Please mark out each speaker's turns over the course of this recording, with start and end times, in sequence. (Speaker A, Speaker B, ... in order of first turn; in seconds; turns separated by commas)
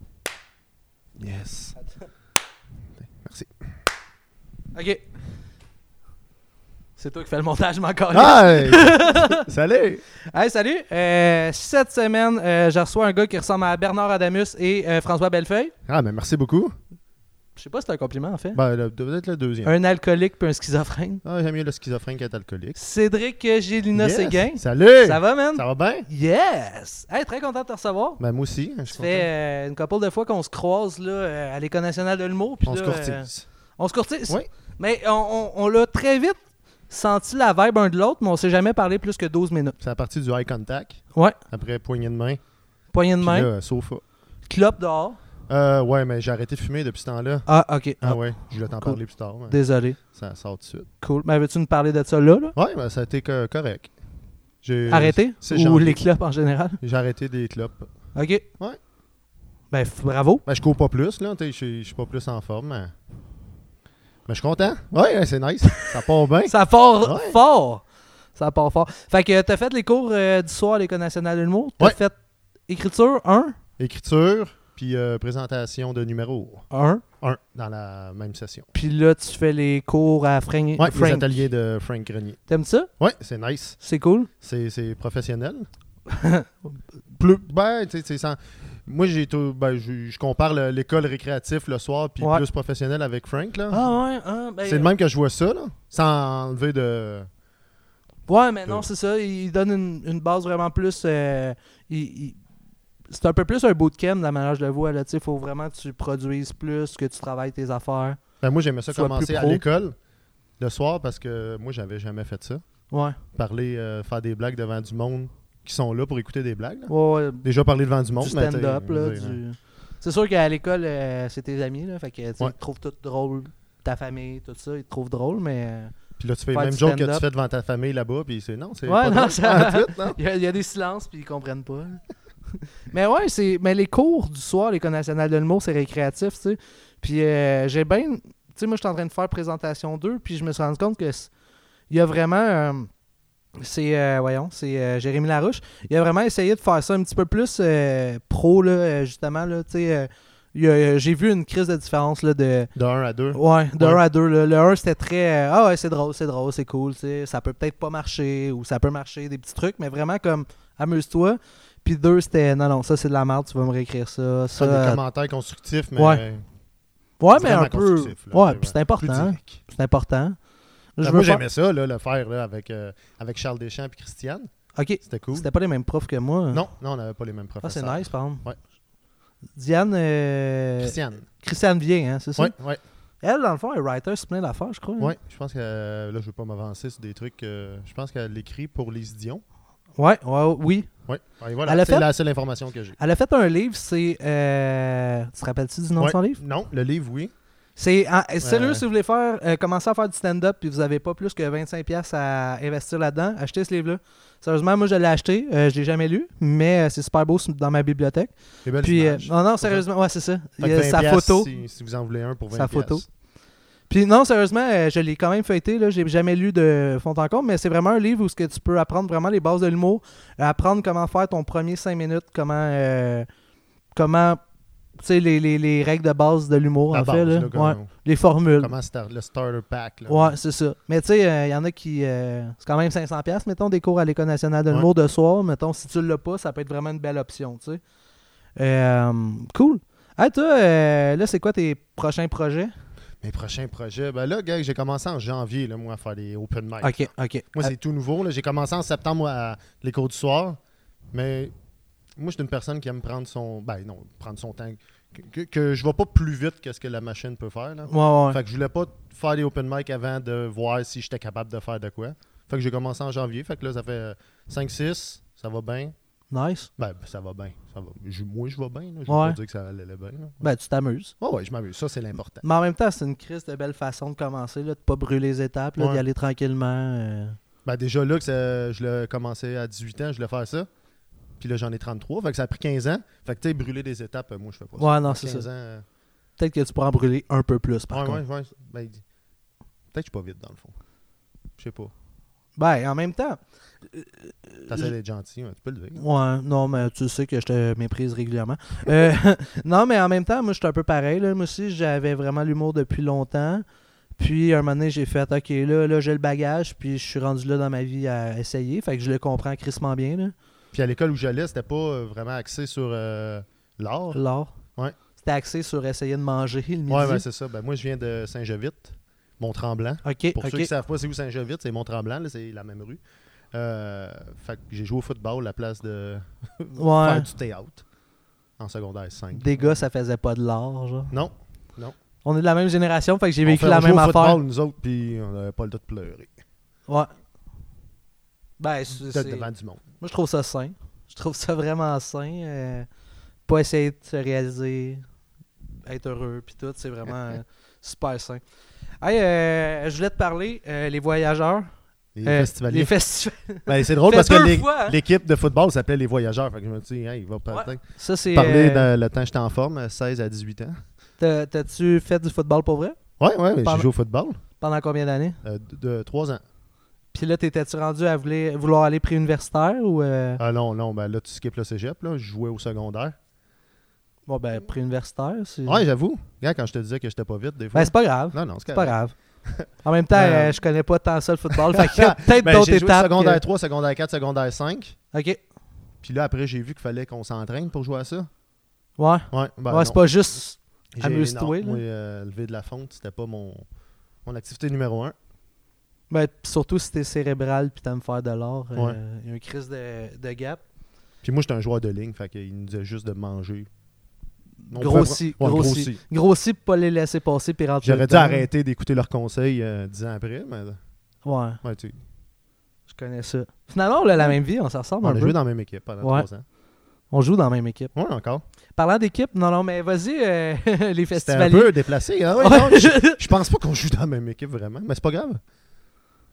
Speaker A: 1.2-1.8, Speaker A: 3.0-3.6, Speaker B: 4.7-5.0, Speaker B: 7.0-9.4, Speaker A: 8.1-10.0, Speaker B: 10.3-15.7, Speaker A: 15.9-16.7, Speaker B: 17.6-18.6, Speaker A: 18.5-19.7, Speaker B: 19.6-21.2, Speaker A: 21.2-22.8, Speaker B: 22.8-28.2, Speaker A: 23.9-26.1, Speaker A: 28.2-29.3, Speaker B: 28.9-39.8, Speaker A: 32.6-33.5, Speaker A: 39.8-42.4, Speaker B: 42.9-43.5, Speaker A: 43.2-44.0, Speaker B: 44.5-45.2, Speaker A: 45.5-47.5, Speaker B: 47.5-50.0, Speaker A: 48.0-50.9, Speaker B: 51.0-52.5, Speaker A: 52.5-53.9, Speaker A: 54.6-56.0, Speaker B: 54.9-56.8, Speaker A: 56.8-57.9, Speaker B: 58.1-58.5, Speaker B: 59.7-60.4, Speaker A: 60.5-62.9, Speaker A: 64.3-67.4, Speaker B: 66.5-67.8, Speaker B: 68.3-72.2, Speaker B: 72.7-73.6, Speaker A: 73.8-76.7, Speaker B: 76.7-77.0, Speaker A: 77.2-78.7, Speaker B: 78.7-81.4, Speaker A: 80.8-82.4, Speaker B: 82.5-82.9, Speaker A: 83.0-83.8, Speaker B: 83.8-84.3, Speaker A: 84.4-85.7, Speaker B: 86.1-86.5, Speaker A: 87.1-93.8, Speaker B: 93.7-94.9, Speaker A: 94.6-97.3, Speaker B: 98.3-102.4, Speaker B: 103.1-108.2, Speaker A: 108.4-110.0, Speaker B: 108.9-109.6, Speaker A: 110.6-112.6, Speaker B: 112.9-113.2, Speaker A: 113.3-119.4, Speaker B: 116.9-117.5, Speaker B: 118.2-126.0, Speaker A: 126.2-130.2, Speaker B: 126.5-127.2, Speaker B: 128.9-132.0, Speaker B: 132.9-141.3, Speaker B: 141.9-142.9, Speaker B: 143.6-152.7, Speaker A: 152.8-154.0, Speaker B: 153.3-165.0, Speaker A: 164.6-166.4, Speaker B: 166.0-166.2, Speaker B: 167.2-170.4, Speaker A: 167.3-169.6, Speaker B: 171.0-171.4, Speaker A: 171.0-174.5, Speaker B: 174.8-176.6, Speaker A: 175.0-175.5, Speaker A: 176.5-178.6, Speaker B: 177.6-178.5, Speaker B: 179.6-182.5, Speaker A: 180.8-181.3, Speaker A: 182.4-182.8, Speaker B: 183.2-185.1, Speaker A: 185.0-189.4, Speaker B: 190.0-190.9, Speaker A: 191.1-193.0, Speaker B: 191.7-192.1, Speaker B: 193.0-196.4, Speaker A: 196.0-197.3, Speaker B: 197.8-211.5, Speaker A: 198.4-198.8, Speaker A: 208.7-209.8, Speaker A: 210.6-213.1, Speaker B: 212.5-213.1, Speaker B: 213.9-223.3, Speaker B: 223.9-224.4, Speaker B: 225.0-228.7, Speaker A: 226.9-227.9, Speaker A: 228.6-230.4, Speaker B: 230.1-237.8, Speaker B: 238.6-242.7, Speaker A: 243.2-250.6, Speaker B: 246.8-247.7, Speaker A: 251.1-251.5, Speaker A: 252.2-265.9, Speaker B: 257.9-258.4, Speaker B: 266.3-266.7, Speaker A: 266.8-270.4, Speaker B: 269.1-269.4, Speaker B: 270.4-271.1, Speaker A: 271.2-272.4, Speaker B: 272.4-277.4, Speaker A: 275.8-276.0, Speaker A: 277.6-280.7, Speaker A: 281.4-285.9, Speaker B: 284.8-285.5, Speaker B: 286.4-288.2, Speaker A: 287.9-289.0, Speaker A: 289.9-290.8, Speaker A: 291.6-291.9, Speaker B: 292.6-294.9, Speaker A: 294.7-296.0, Speaker B: 296.0-303.6, Speaker B: 304.2-310.3, Speaker A: 310.7-314.2, Speaker B: 314.1-314.5, Speaker B: 315.2-317.2, Speaker A: 316.9-323.0, Speaker B: 320.0-320.7, Speaker A: 323.5-327.8, Speaker B: 326.8-327.3, Speaker A: 328.6-329.8, Speaker B: 329.3-331.1, Speaker A: 331.1-331.9, Speaker B: 332.2-334.4, Speaker A: 333.4-336.3, Speaker B: 338.6-339.5, Speaker A: 339.0-339.8, Speaker B: 340.0-342.9, Speaker B: 343.5-345.0, Speaker B: 345.9-348.4, Speaker B: 349.0-351.7, Speaker A: 352.1-352.9, Speaker B: 352.2-355.0, Speaker A: 353.7-360.8, Speaker B: 357.5-358.9, Speaker B: 361.2-363.0, Speaker A: 363.2-364.4, Speaker B: 363.6-363.9, Speaker B: 364.6-365.4, Speaker A: 365.4-366.4, Speaker B: 367.1-370.4, Speaker A: 370.4-373.2, Speaker B: 374.3-375.8, Speaker A: 375.7-380.6, Speaker B: 377.7-379.2, Speaker B: 379.7-383.4, Speaker A: 381.5-385.0, Speaker B: 385.1-385.4, Speaker A: 386.0-388.3, Speaker B: 389.0-391.8, Speaker A: 389.3-390.1, Speaker A: 390.9-393.6, Speaker A: 394.2-395.1, Speaker B: 396.1-400.6, Speaker A: 401.2-403.7, Speaker A: 404.7-406.0, Speaker B: 404.7-408.5, Speaker A: 407.8-410.8, Speaker B: 411.2-411.6, Speaker A: 411.6-412.0, Speaker B: 412.9-415.4, Speaker A: 415.0-416.4, Speaker B: 416.0-416.3, Speaker B: 417.1-417.9, Speaker A: 417.9-418.4, Speaker B: 418.8-421.7, Speaker A: 421.2-425.4, Speaker B: 422.4-423.2